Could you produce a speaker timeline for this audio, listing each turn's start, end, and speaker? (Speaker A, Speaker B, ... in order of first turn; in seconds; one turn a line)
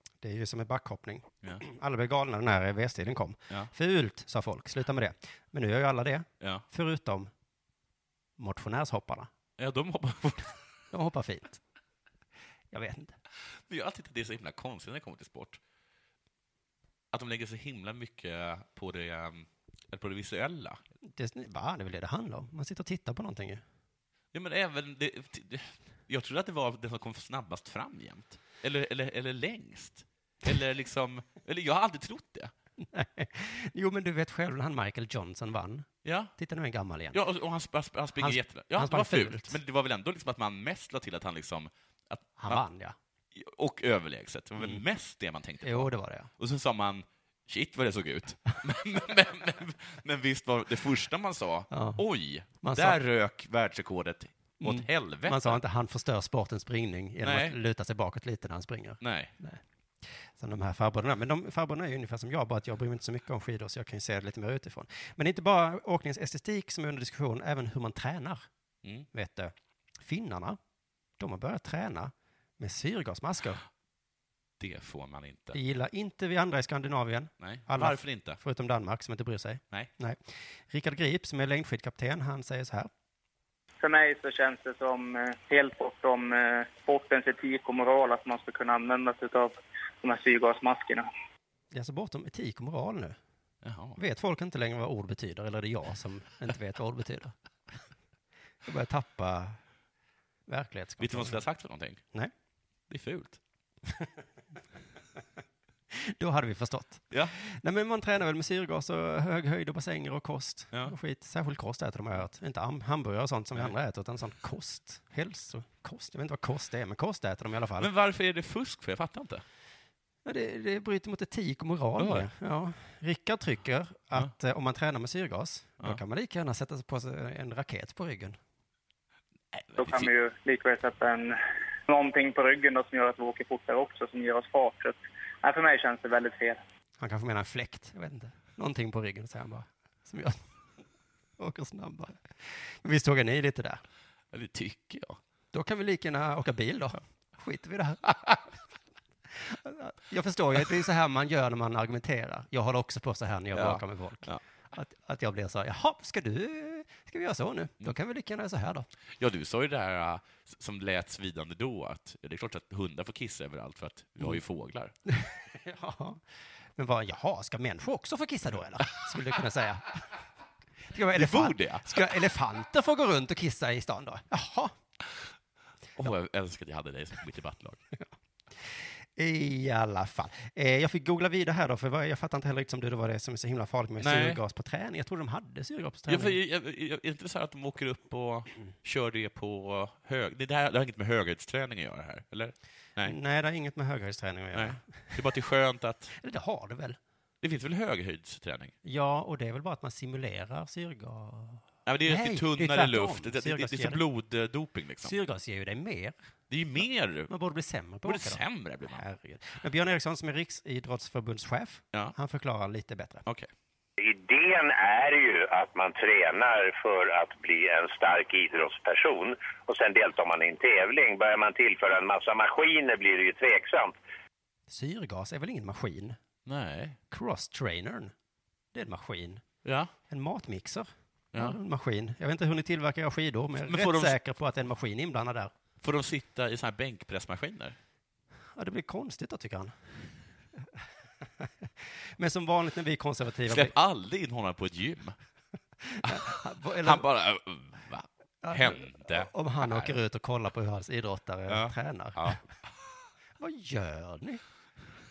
Speaker A: 0.2-7.3
Speaker B: 6.4-6.7
Speaker A: 8.4-9.3
Speaker B: 9.6-10.6
Speaker A: 10.9-11.6
Speaker A: 12.7-13.1
Speaker B: 13.7-15.6
Speaker B: 17.1-20.8
Speaker A: 21.1-23.6
Speaker B: 24.3-32.5
Speaker A: 32.8-37.2
Speaker B: 36.0-36.3
Speaker B: 37.1-42.6
Speaker A: 38.2-39.6
Speaker A: 42.4-43.0
Speaker B: 43.3-55.6
Speaker A: 45.6-46.3
Speaker A: 51.7-52.0
Speaker A: 52.6-53.0
Speaker A: 54.6-68.5
Speaker B: 57.2-57.6
Speaker B: 59.0-59.3
Speaker A: 69.1-70.6
Speaker A: 71.2-73.6
Speaker B: 74.6-75.6
Speaker A: 75.5-82.9
Speaker B: 77.4-78.4
Speaker C: 83.8-91.1
Speaker A: 91.7-93.2
Speaker B: 93.6-94.0
Speaker A: 94.0-97.3
Speaker A: 98.7-99.6
Speaker A: 100.5-101.4
Speaker B: 101.0-102.0
Speaker B: 102.9-103.4
Speaker A: 105.9-117.9
Speaker B: 107.1-107.4
Speaker B: 117.8-119.4
Speaker A: 120.2-128.4
Speaker B: 122.0-122.3
Speaker B: 129.5-130.1
Speaker C: 129.8-136.6
Speaker A: 137.0-140.4
Speaker A: 141.4-143.8
Speaker B: 144.3-145.2
Speaker A: 145.5-148.5
Speaker A: 149.3-158.9
Speaker B: 153.5-154.4
Speaker B: 159.2-164.9
Speaker A: 165.1-166.2
Speaker A: 166.8-170.0
Speaker A: 170.9-174.7
Speaker B: 171.1-172.2
Speaker B: 176.0-177.8
Speaker A: 179.2-186.4
Speaker B: 184.0-184.4
Speaker B: 186.1-193.2
Speaker A: 193.0-195.2
Speaker B: 194.5-196.1
Speaker A: 196.2-197.0
Speaker B: 197.4-198.7
Speaker A: 198.8-204.0
Speaker B: 201.9-205.2
Speaker A: 205.0-206.2
Speaker B: 206.5-207.3
Speaker A: 207.3-213.2
Speaker B: 208.0-209.1
Speaker D: 214.0-224.0
Speaker A: 224.7-226.2
Speaker B: 226.4-227.0
Speaker A: 227.1-228.1
Speaker A: 228.7-229.4
Speaker B: 229.6-229.9
Speaker A: 230.1-235.5
Speaker B: 231.3-231.6
Speaker B: 233.6-234.2
Speaker B: 235.8-237.8
Speaker A: 238.6-239.7
Speaker A: 241.4-243.7
Speaker B: 243.5-245.2
Speaker A: 245.8-247.1
Speaker B: 246.0-250.0
Speaker A: 248.4-252.4
Speaker B: 251.5-252.4
Speaker A: 253.4-254.4